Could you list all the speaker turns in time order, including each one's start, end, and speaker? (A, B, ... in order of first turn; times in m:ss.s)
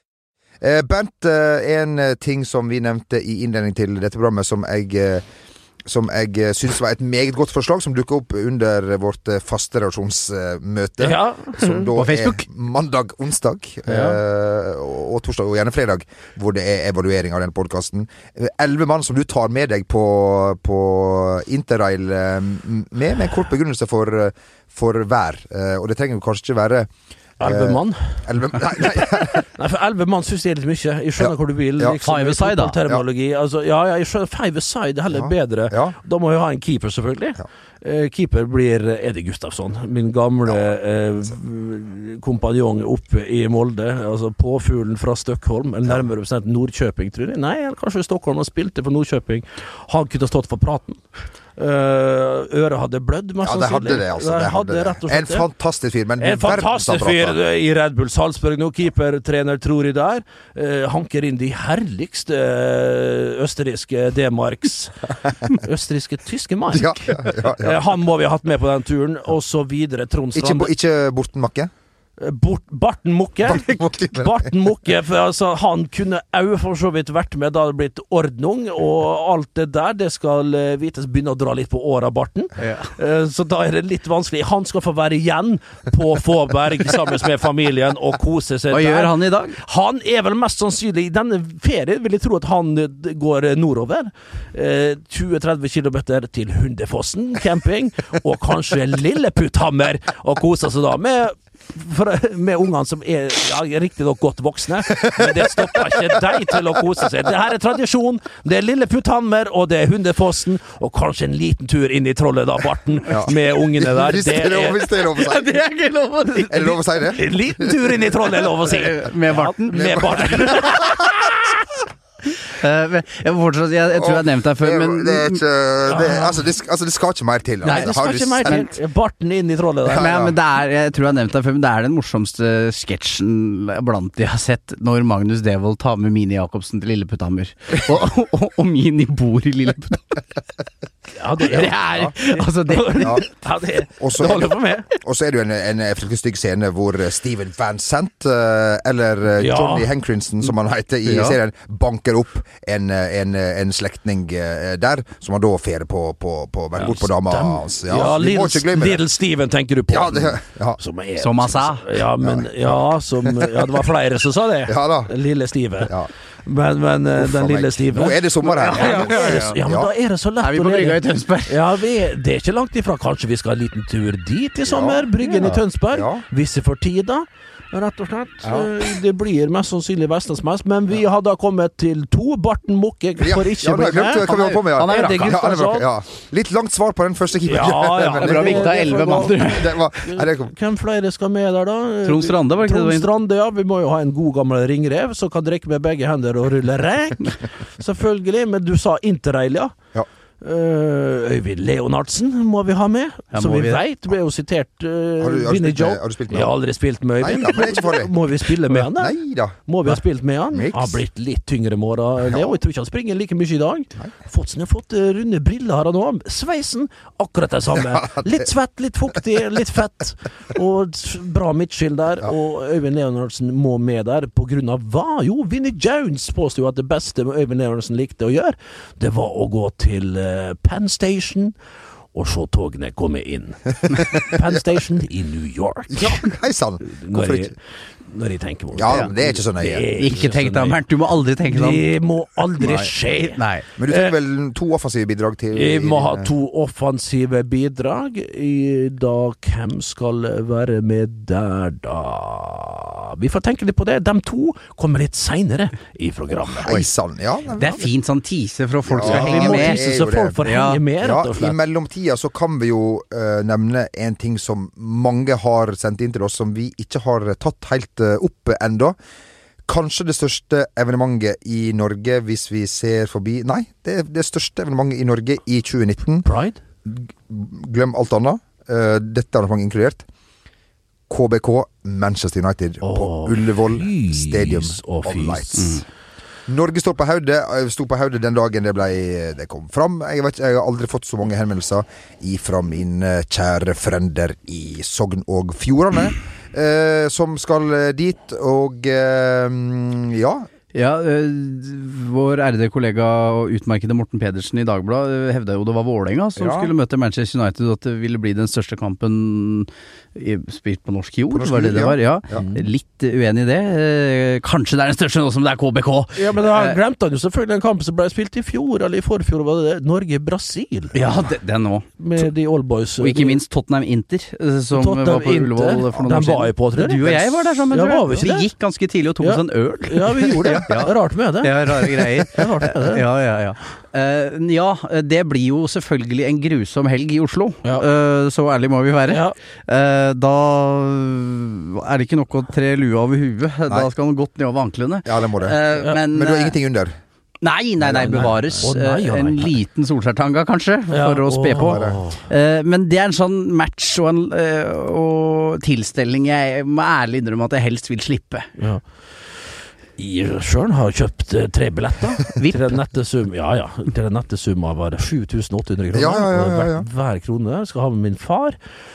0:00.6-0:05.2 A
0:05.8-0:29.4 A
0:11.0-0:11.9 B
0:12.0-0:12.4 C
0:13.9-0:14.2 B
0:27.4-0:51.0 B
0:31.2-0:32.0 A
0:32.0-0:32.8 C
0:35.1-0:36.0 A
0:51.6-0:55.5 B
0:53.4-0:57.4 A
0:56.2-1:10.7 B
1:06.7-1:07.9 A
1:10.3-1:11.7 A
1:12.2-1:54.8 B
1:13.4-1:14.5 A
1:22.6-1:22.9 C
1:28.7-1:29.6 C
1:45.0-1:46.0 A
1:53.1-1:55.5 A
1:55.1-1:56.7 C
1:56.5-1:57.8 A
1:56.9-2:01.6 B
1:58.6-2:00.6 C
1:59.7-2:00.8 A
2:02.5-2:05.4 C
2:03.9-2:08.5 A
2:05.9-2:06.4 B
2:07.6-2:10.1 B
2:09.9-2:10.3 A
2:09.9-2:20.2 C
2:21.2-2:24.9 B
2:21.4-2:23.2 C
2:24.0-2:39.0 A
2:29.4-2:29.9 B
2:31.0-2:31.4 C
2:36.8-2:45.9 B
2:39.9-2:40.8 A
2:41.2-2:42.0 C
2:42.2-2:43.7 A
2:44.6-2:45.1 A
2:45.8-2:46.1 A
2:46.4-3:04.2 B
2:47.2-2:49.9 A
2:48.4-2:49.6 C
2:50.4-2:51.7 C
2:54.7-2:56.2 A
2:55.2-2:55.5 C
2:58.4-2:58.7 A
3:03.2-3:10.5 A
3:04.2-3:05.4 C
3:04.8-3:05.8 B
3:07.4-3:19.8 B
3:08.1-3:09.8 C
3:12.0-3:13.1 C
3:20.4-3:29.1 B
3:23.3-3:23.8 C
3:25.2-3:26.5 A
3:27.2-3:28.2 A
3:28.7-3:29.6 A
3:29.6-3:51.5 B
3:30.5-3:31.0 A
3:32.3-3:32.5 A
3:37.8-3:38.4 A
3:52.1-3:56.3 B
3:55.9-3:57.5 A
3:56.8-3:57.5 B
3:58.0-4:00.8 B
3:58.7-3:59.9 A
4:00.0-4:01.9 C
4:01.5-4:04.1 B
4:02.6-4:02.9 A
4:03.3-4:03.6 C
4:03.8-4:06.3 A
4:05.5-4:16.8 B
4:16.6-4:17.9 A
4:17.6-4:19.8 C
4:18.9-4:20.4 A
4:19.0-4:21.6 B
4:20.4-4:20.8 C
4:21.0-4:29.0 A
4:29.7-4:36.3 A
4:36.2-4:36.6 B
4:36.8-4:40.0 A
4:41.1-4:45.8 A
4:42.8-4:45.8 B
4:45.6-4:45.8 C
4:46.5-5:00.5 A
5:00.7-5:16.8 C
5:06.4-5:06.7 A
5:11.3-5:12.4 A
5:12.3-5:12.6 B
5:16.2-5:21.0 B
5:20.9-5:22.2 C
5:22.0-5:23.4 B
5:23.0-5:46.6 C
5:24.7-5:28.5 B
5:29.2-5:33.0 B
5:39.1-5:39.3 B
5:45.0-5:47.0 A
5:47.4-5:58.5 C
5:47.8-5:48.6 A
5:48.0-5:49.5 B
5:50.9-5:52.2 B
5:51.6-5:52.0 A
5:58.6-5:58.8 B
6:00.0-6:08.6 B
6:02.4-6:02.8 C
6:05.9-6:06.8 A